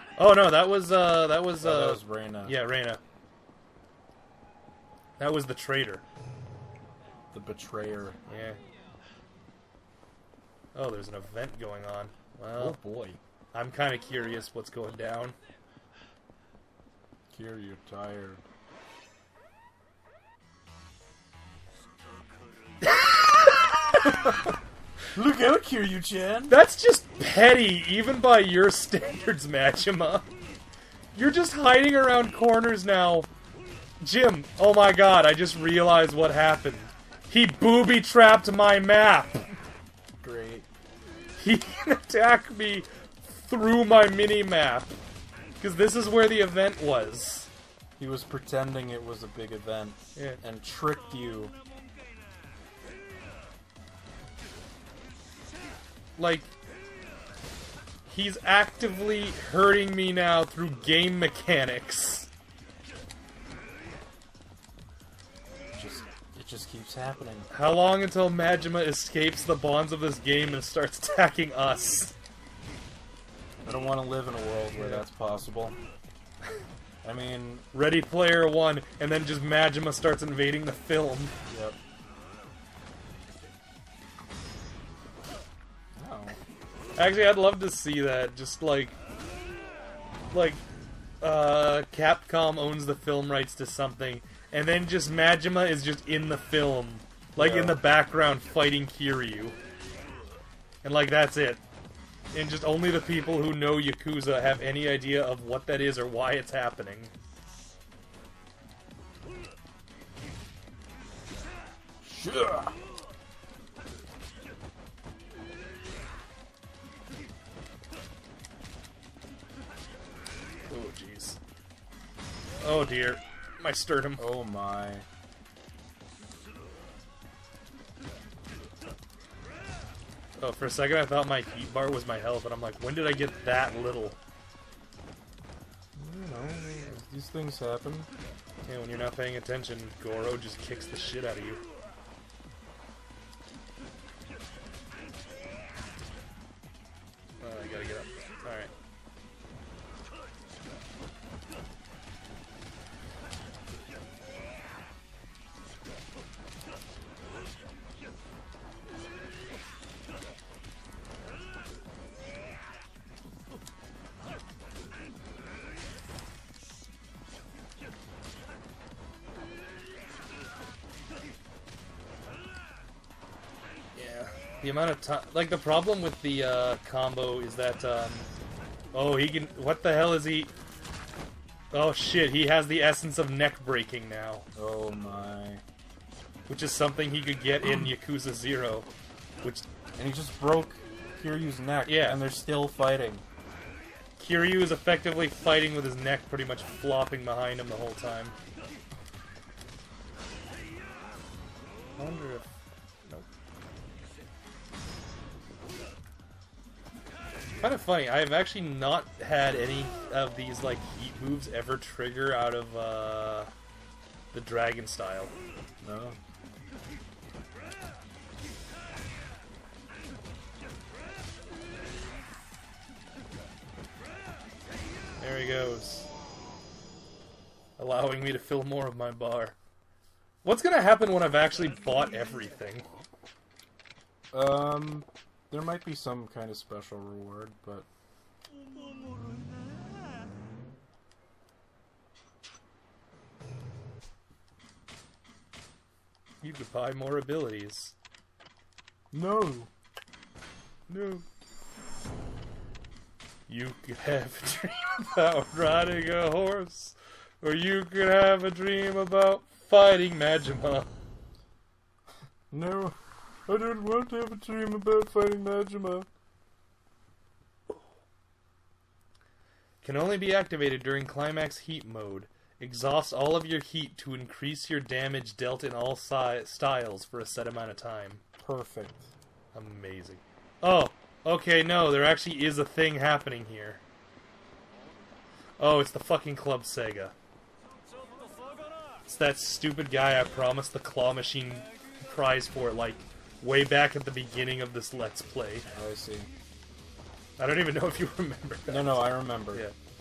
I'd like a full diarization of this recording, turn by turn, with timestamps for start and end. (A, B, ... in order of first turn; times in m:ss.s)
0:00.2-0:03.0 A
0:01.6-0:02.6 B
0:05.2-0:06.0 A
0:07.3-0:08.2 B
0:08.3-0:08.6 A
0:10.7-0:12.8 A
0:12.6-0:13.2 B
0:13.5-0:15.4 A
0:17.3-0:18.4 B
0:22.8-0:24.5 A
0:25.1-0:26.6 B
0:26.5-0:30.3 A
0:31.1-0:33.3 A
0:34.0-0:39.5 A
0:40.2-0:40.7 B
0:41.4-0:45.0 A
0:45.6-0:47.5 A
0:48.0-0:51.5 B
0:56.2-0:56.5 A
0:58.1-1:02.3 A
1:05.8-1:07.5 B
1:07.5-1:12.1 A
1:13.6-1:15.8 B
1:14.7-1:15.0 A
1:17.0-1:17.6 B
1:17.7-1:21.3 A
1:21.5-1:21.8 B
1:26.0-1:26.4 B
1:27.0-1:29.0 A
1:30.3-1:30.6 A
1:31.2-1:39.6 A
1:37.4-1:37.8 B
1:40.8-1:41.6 A
1:42.3-1:47.1 A
1:52.0-1:52.7 B
2:00.7-2:01.4 A
2:02.6-2:04.3 A
2:04.2-2:05.0 B
2:10.4-2:14.2 A
2:16.0-2:18.1 B
2:18.6-2:21.6 A
2:27.4-2:28.7 A
2:53.9-2:58.3 A
2:58.9-3:00.5 A
3:01.7-3:04.4 A
3:04.5-3:05.6 B
3:06.5-3:08.9 A
3:09.9-3:13.2 B
3:11.8-3:12.2 A
3:14.2-3:18.4 A
3:22.0-3:22.5 A
3:27.6-3:33.5 A
3:34.3-3:35.3 A
3:35.8-3:36.2 B
3:45.2-3:46.1 A
3:47.8-3:49.6 A
3:50.4-3:52.9 A
3:54.3-3:57.8 B
4:06.4-4:07.9 A
4:09.1-4:09.7 B
4:10.9-4:11.2 A
4:13.5-4:20.9 A
4:22.5-4:26.1 B
4:29.8-4:38.2 A
4:38.4-4:39.1 B
4:39.5-4:43.8 A
4:45.6-4:47.1 A
4:49.0-4:55.7 A
4:55.7-4:56.3 B
4:57.4-4:59.7 A
4:58.7-4:59.7 B